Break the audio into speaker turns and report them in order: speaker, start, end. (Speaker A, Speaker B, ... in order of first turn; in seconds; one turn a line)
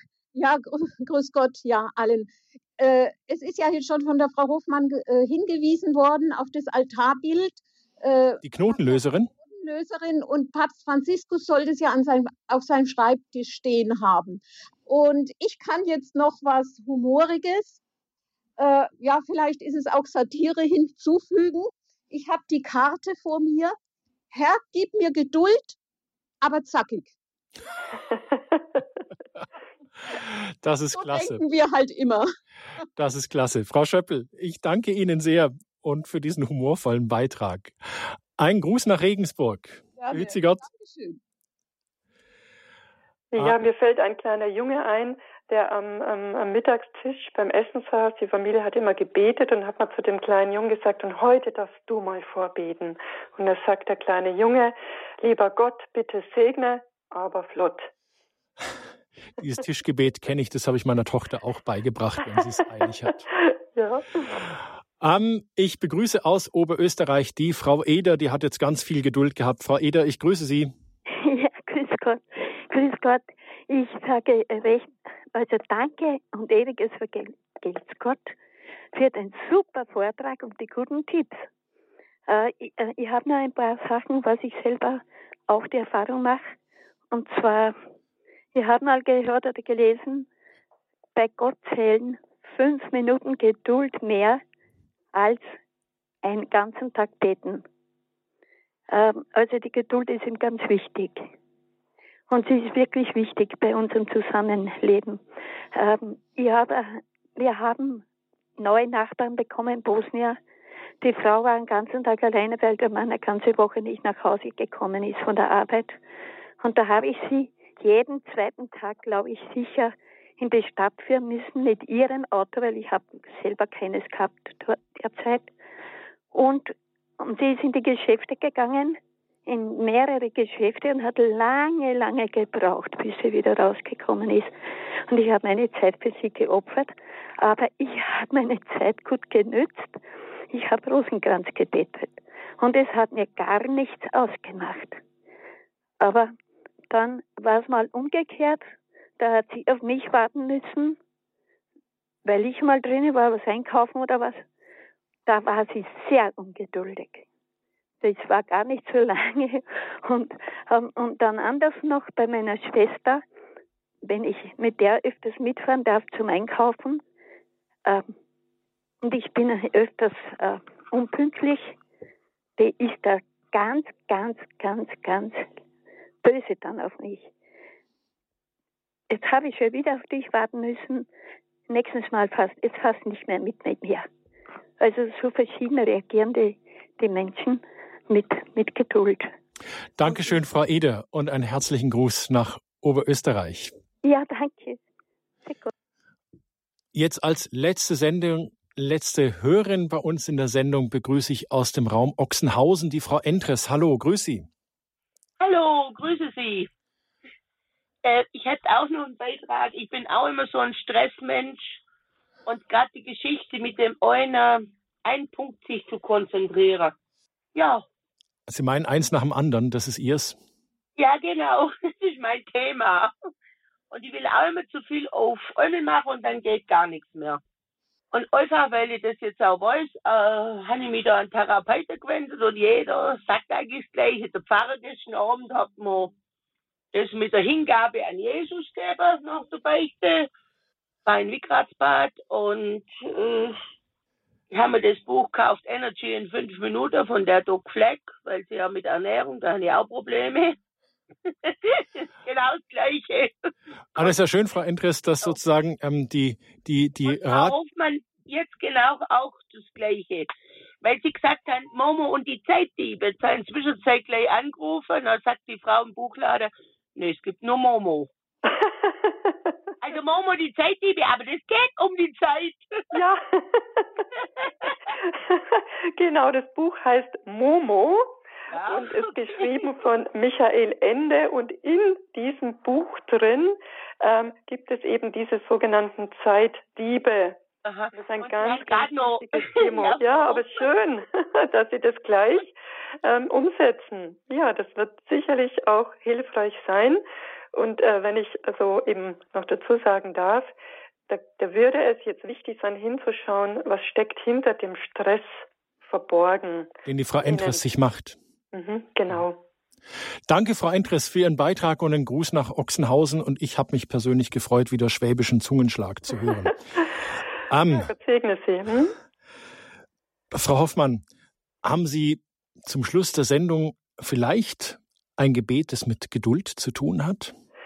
Speaker A: 0.3-17.8
Speaker B: 8.4-9.3
Speaker A: 18.6-23.8
Speaker A: 24.3-25.8
Speaker A: 26.4-27.1
Speaker B: 30.3-31.4
Speaker A: 31.0-32.3
Speaker B: 33.0-40.6
Speaker A: 40.0-41.2
Speaker C: 43.3-57.9
Speaker B: 59.4-63.3
Speaker C: 63.7-64.3
Speaker B: 65.0-70.7
Speaker D: 71.1-78.4
Speaker D: 78.9-81.5
Speaker D: 82.3-86.5
Speaker D: 87.1-87.8
Speaker D: 88.5-90.3
Speaker D: 91.2-94.4
Speaker D: 95.1-95.5
Speaker D: 96.2-97.6
Speaker D: 98.9-101.3
Speaker D: 102.3-105.2
Speaker D: 105.7-108.0
Speaker D: 108.6-110.4
Speaker D: 111.0-116.0
Speaker D: 116.6-125.5
Speaker D: 126.3-134.5
Speaker D: 135.1-139.9
Speaker D: 140.5-145.0
Speaker D: 146.0-146.3
Speaker D: 146.9-148.6
Speaker D: 149.2-151.0
Speaker D: 152.2-154.4
Speaker D: 155.3-157.3
Speaker D: 158.0-163.2
Speaker D: 164.0-167.0
Speaker D: 167.9-168.1
Speaker D: 169.0-171.8
Speaker D: 172.6-175.5
Speaker D: 176.2-177.3
Speaker D: 179.1-181.1
Speaker D: 181.7-184.1
Speaker D: 184.8-189.3
Speaker B: 190.0-193.7
Speaker D: 194.0-194.8
Speaker D: 195.5-195.7
Speaker B: 196.9-204.5
Speaker E: 205.4-206.7
Speaker E: 208.0-211.8
Speaker E: 212.5-216.9
Speaker E: 217.6-217.8
Speaker B: 218.5-220.4
Speaker E: 221.0-223.1
Speaker E: 223.9-227.4
Speaker E: 228.1-236.1
Speaker E: 236.9-240.3
Speaker E: 241.1-243.6
Speaker E: 244.5-250.6
Speaker E: 251.3-253.3
Speaker B: 253.9-257.6
Speaker E: 257.1-268.1
Speaker C: 268.5-269.3
Speaker E: 269.8-272.9
Speaker C: 272.9-273.9
Speaker E: 274.2-274.8
Speaker C: 275.0-278.1
Speaker E: 278.5-279.5
Speaker C: 278.6-287.4
Speaker E: 287.7-290.5
Speaker C: 288.0-300.5
Speaker C: 301.1-307.6
Speaker B: 306.9-308.2
Speaker C: 308.5-309.4
Speaker B: 310.3-316.6
Speaker B: 317.5-317.9
Speaker C: 317.7-318.9
Speaker B: 320.3-321.0
Speaker B: 321.6-327.3